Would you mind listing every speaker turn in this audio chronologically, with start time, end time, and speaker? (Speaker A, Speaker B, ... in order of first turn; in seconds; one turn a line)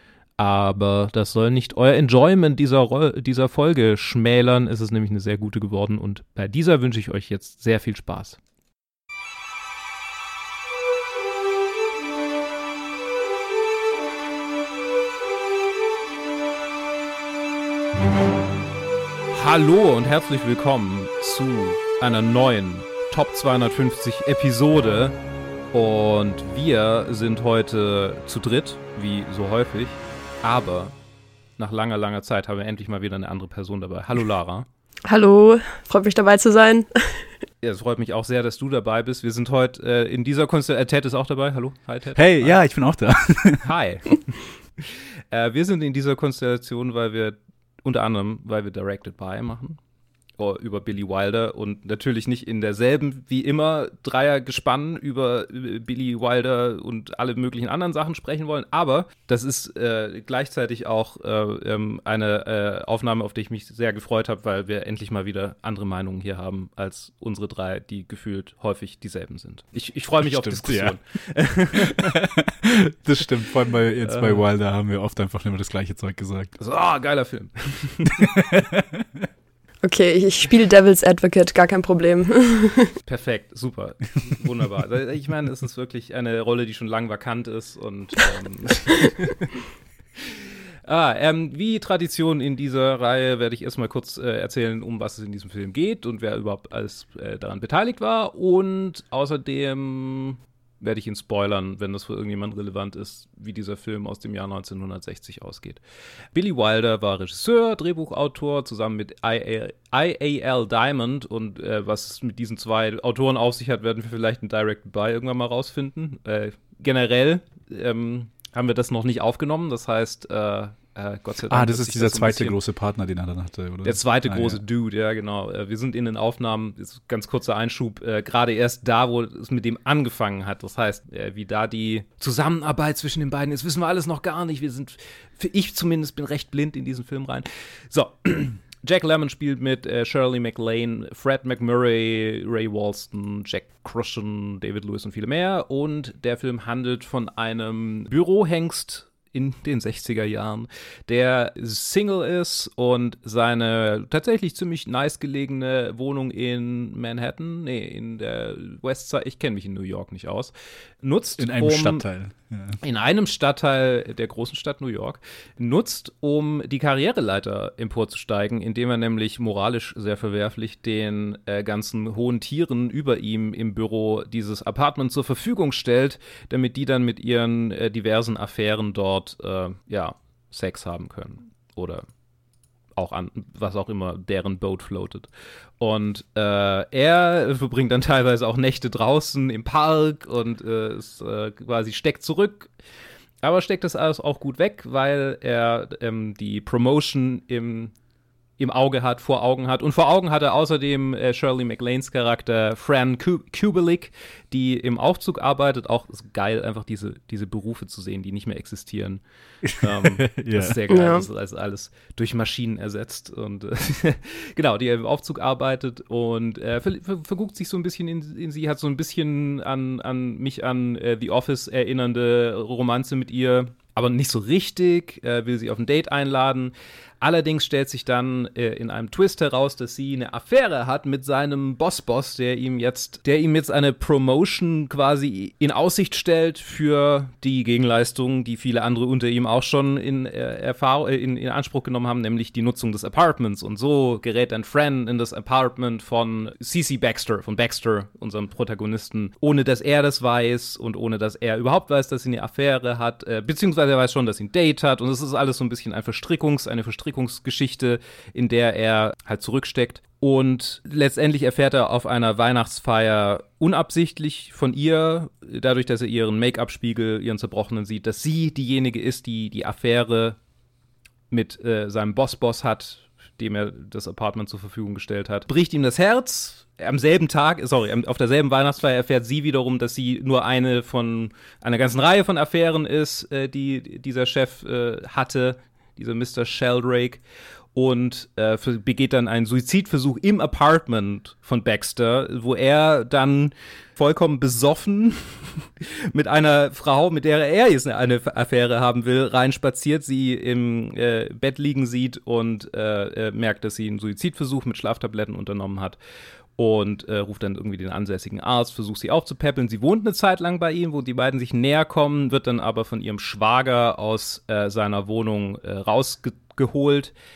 Speaker A: 0.4-8.4
Speaker A: 19.3-25.1
Speaker A: 25.7-31.0
Speaker A: 31.6-34.6
Speaker B: 35.1-37.2
Speaker A: 37.6-42.6
Speaker C: 42.1-43.6
Speaker A: 43.6-49.8
Speaker A: 50.4-72.2
Speaker C: 70.2-71.0
Speaker C: 71.8-76.5
Speaker A: 74.0-74.5
Speaker A: 76.6-78.3
Speaker C: 78.1-79.2
Speaker B: 79.8-82.9
Speaker A: 83.0-89.5
Speaker A: 90.2-105.8
Speaker A: 106.3-122.6
Speaker C: 121.5-124.6
Speaker A: 123.8-162.1
Speaker C: 161.4-162.8
Speaker A: 162.8-182.1
Speaker A: 182.9-185.3
Speaker A: 185.8-192.7
Speaker A: 193.4-197.9
Speaker A: 198.6-209.2
Speaker C: 209.6-210.8
Speaker A: 209.7-270.4
Speaker B: 210.9-211.2
Speaker A: 271.3-287.2
Speaker A: 287.7-306.0
Speaker A: 306.6-317.1